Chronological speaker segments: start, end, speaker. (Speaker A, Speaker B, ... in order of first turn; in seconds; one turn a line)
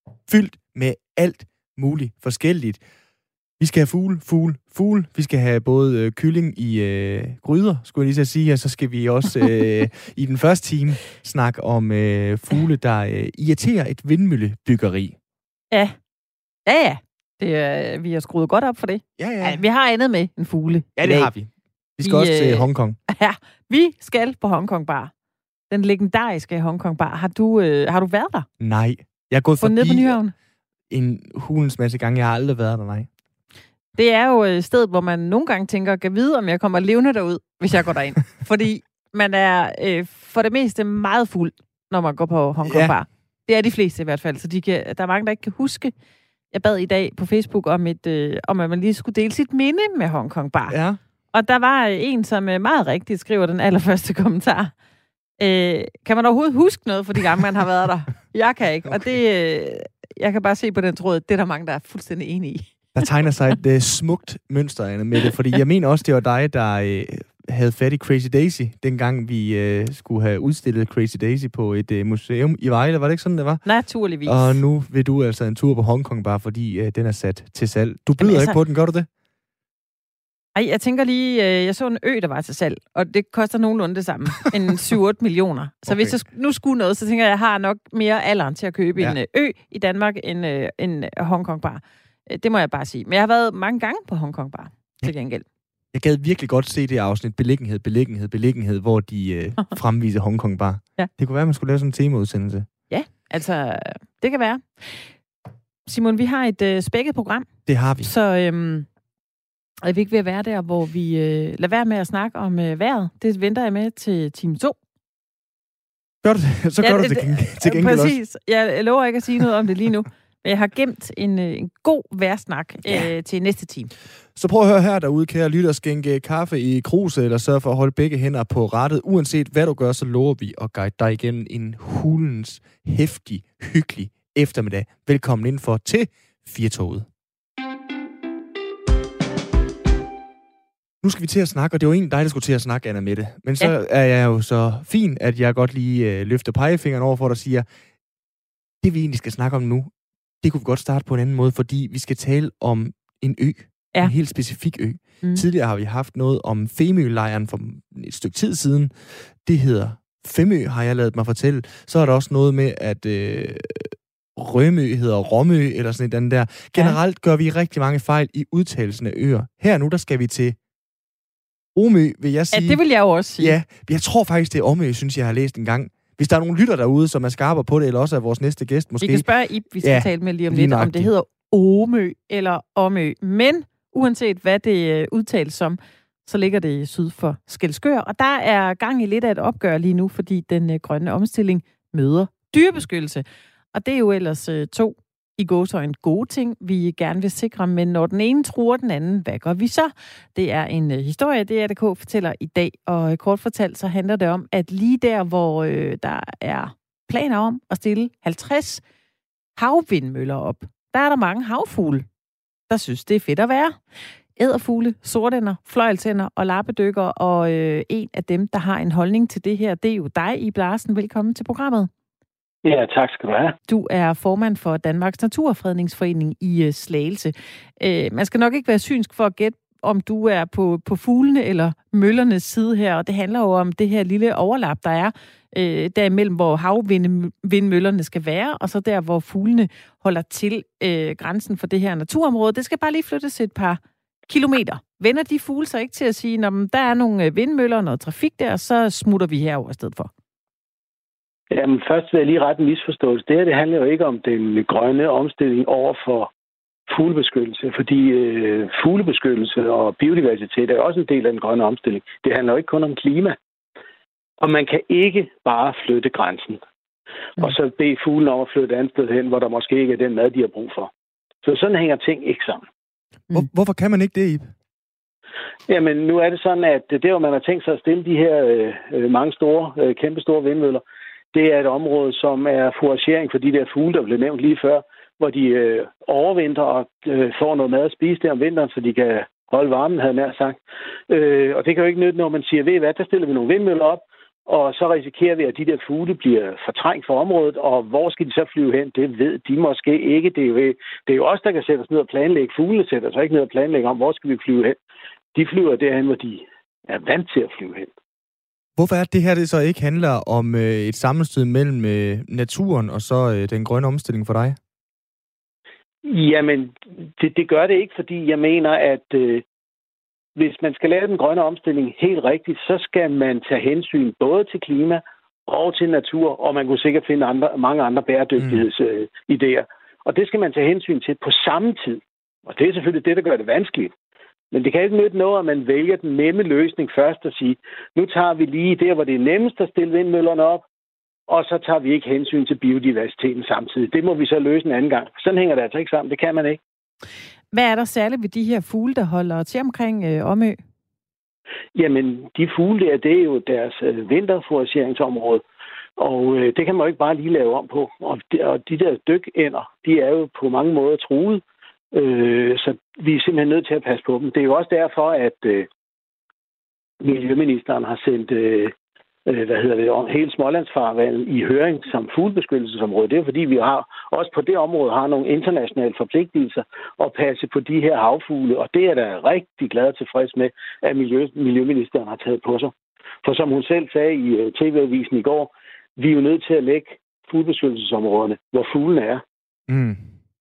Speaker A: 0.3-2.8
Speaker A: 3.6-15.2
Speaker B: 15.7-16.0
Speaker B: 16.7-21.3
Speaker A: 19.2-19.6
Speaker A: 21.0-23.0
Speaker B: 22.0-25.1
Speaker B: 25.7-28.5
Speaker A: 28.6-30.2
Speaker B: 29.6-30.3
Speaker A: 30.9-33.1
Speaker B: 34.0-45.9
Speaker A: 42.6-42.9
Speaker B: 46.5-50.8
Speaker A: 50.7-51.0
Speaker B: 51.3-54.7
Speaker B: 55.4-62.8
Speaker A: 62.9-73.6
Speaker B: 73.7-74.6
Speaker A: 74.2-79.1
Speaker B: 78.2-78.6
Speaker B: 80.5-95.5
Speaker A: 85.9-86.2
Speaker A: 95.9-102.7
Speaker B: 102.9-105.1
Speaker B: 105.9-107.5
Speaker A: 107.7-108.1
Speaker B: 108.0-108.9
Speaker B: 109.8-114.8
Speaker A: 116.2-118.2
Speaker B: 116.8-123.9
Speaker A: 124.3-137.1
Speaker A: 141.0-147.7
Speaker A: 148.8-158.9
Speaker A: 159.4-170.6
Speaker A: 171.8-172.8
Speaker B: 172.5-173.6
Speaker A: 173.4-179.2
Speaker B: 179.0-208.8
Speaker A: 179.8-181.1
Speaker B: 209.6-212.1
Speaker B: 212.7-213.8
Speaker B: 214.4-221.9
Speaker C: 222.6-223.6
Speaker B: 223.7-250.1
Speaker C: 251.5-256.3
Speaker C: 256.9-263.4
Speaker C: 264.4-266.6
Speaker C: 267.4-270.9
Speaker C: 271.4-272.6
Speaker A: 273.3-274.5
Speaker C: 275.7-304.8
Speaker C: 305.3-307.9
Speaker A: 308.8-314.6
Speaker C: 316.0-319.4
Speaker C: 320.4-333.9
Speaker C: 334.5-340.6
Speaker C: 341.3-346.6
Speaker B: 347.5-350.6
Speaker C: 351.8-355.4
Speaker C: 356.0-361.4
Speaker C: 361.9-365.7
Speaker C: 367.0-368.7
Speaker C: 369.3-382.7
Speaker C: 383.2-389.2
Speaker A: 389.7-390.1